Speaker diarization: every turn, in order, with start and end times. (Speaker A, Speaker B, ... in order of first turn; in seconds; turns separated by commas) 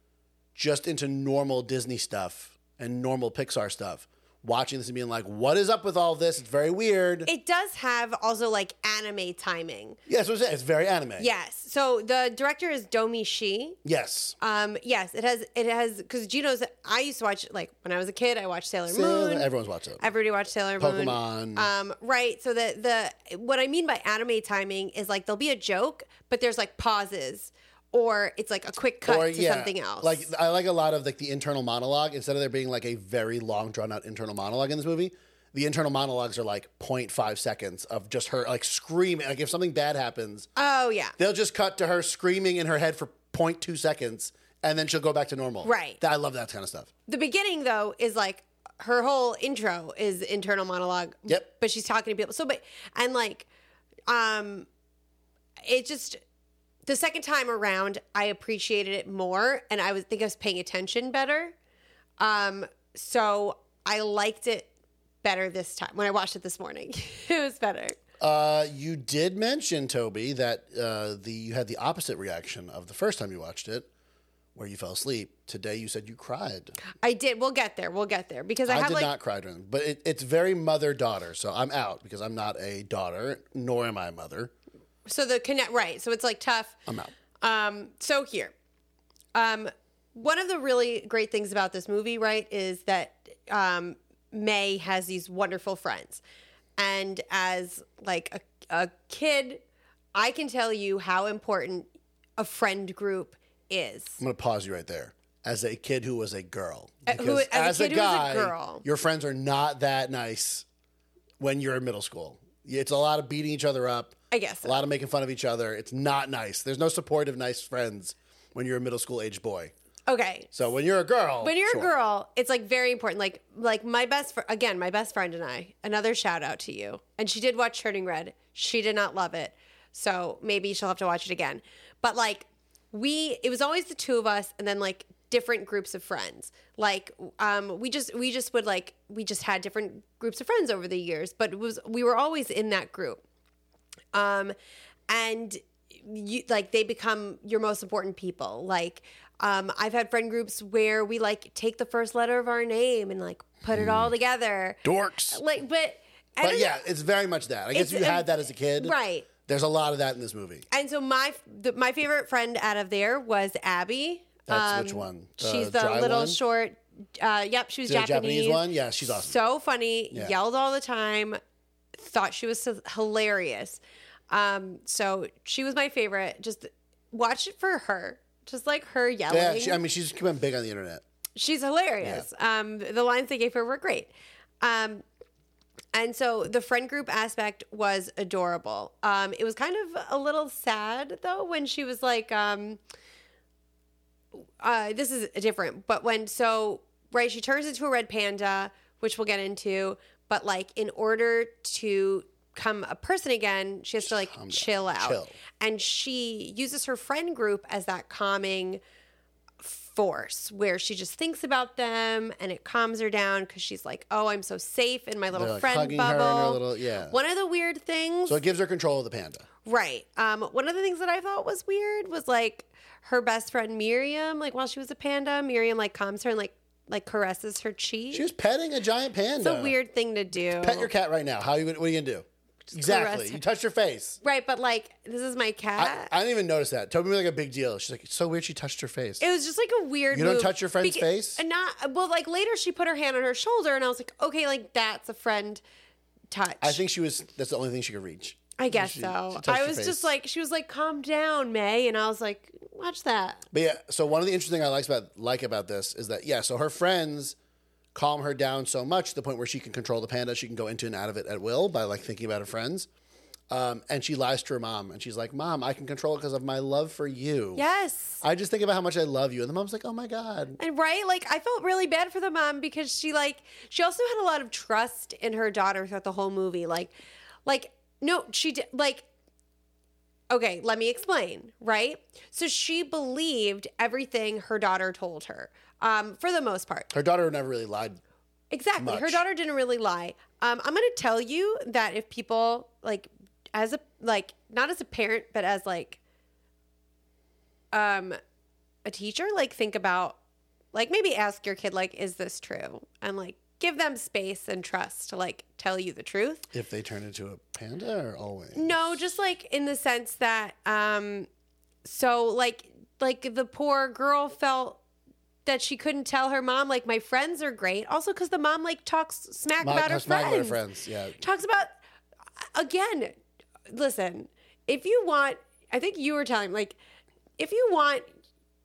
Speaker A: 0.6-7.3, Speaker B: 7.3-10.0, Speaker A: 10.1-11.3, Speaker B: 11.2-13.8, Speaker A: 13.8-14.4, Speaker B: 14.4-19.5, Speaker A: 18.9-20.0, Speaker B: 20.0-30.3, Speaker A: 20.8-21.7, Speaker A: 29.1-40.5, Speaker B: 40.6-41.1, Speaker A: 41.2-46.9, Speaker B: 45.6-46.0, Speaker B: 47.1-53.5, Speaker B: 54.1-54.7, Speaker B: 55.6-56.2, Speaker B: 56.9-61.5, Speaker B: 62.2-64.7, Speaker B: 65.2-68.0, Speaker A: 68.2-73.9, Speaker A: 74.5-76.8, Speaker B: 77.0-79.1, Speaker A: 78.7-84.5, Speaker B: 85.1-86.8, Speaker A: 86.9-87.1, Speaker B: 87.4-88.5, Speaker B: 89.3-96.2, Speaker B: 96.8-99.6, Speaker B: 100.1-104.2, Speaker A: 104.2-110.7, Speaker B: 107.1-108.8, Speaker A: 111.4-119.7, Speaker B: 114.3-114.8, Speaker B: 120.1-120.5, Speaker A: 120.5-121.9, Speaker B: 121.4-143.2, Speaker B: 144.1-144.6, Speaker B: 145.1-156.8, Speaker A: 153.7-154.1, Speaker A: 154.8-155.4, Speaker A: 156.4-160.7, Speaker B: 157.7-159.3, Speaker B: 160.7-168.6, Speaker A: 164.5-166.4, Speaker A: 167.9-169.3, Speaker B: 169.2-171.4, Speaker B: 172.0-179.8, Speaker A: 179.3-181.0, Speaker B: 181.4-185.0, Speaker B: 185.9-192.8, Speaker B: 194.6-208.8, Speaker A: 204.0-205.3, Speaker B: 209.6-218.4, Speaker A: 215.3-217.2, Speaker A: 218.3-219.5, Speaker B: 219.7-228.3, Speaker A: 228.1-229.8, Speaker B: 229.4-230.9, Speaker A: 230.6-234.2, Speaker B: 232.7-233.4, Speaker B: 234.2-236.1, Speaker A: 235.8-239.2, Speaker B: 239.2-245.6, Speaker A: 240.1-241.4, Speaker B: 246.3-246.8, Speaker A: 246.6-250.1, Speaker B: 248.6-253.4, Speaker A: 253.5-257.4, Speaker A: 257.9-262.9, Speaker A: 263.5-267.6, Speaker B: 267.6-268.2, Speaker A: 268.2-270.6, Speaker B: 270.6-276.9, Speaker B: 277.5-279.1, Speaker B: 280.3-286.9, Speaker A: 286.9-288.0, Speaker B: 288.5-296.0, Speaker A: 288.8-289.2, Speaker B: 297.7-298.2, Speaker B: 298.9-300.2, Speaker B: 300.7-306.4, Speaker A: 306.5-309.0, Speaker B: 308.6-311.3, Speaker B: 311.8-314.8, Speaker B: 315.4-320.6, Speaker A: 319.6-321.2, Speaker B: 321.2-321.7, Speaker B: 322.5-323.1, Speaker B: 323.7-326.8, Speaker B: 327.4-328.1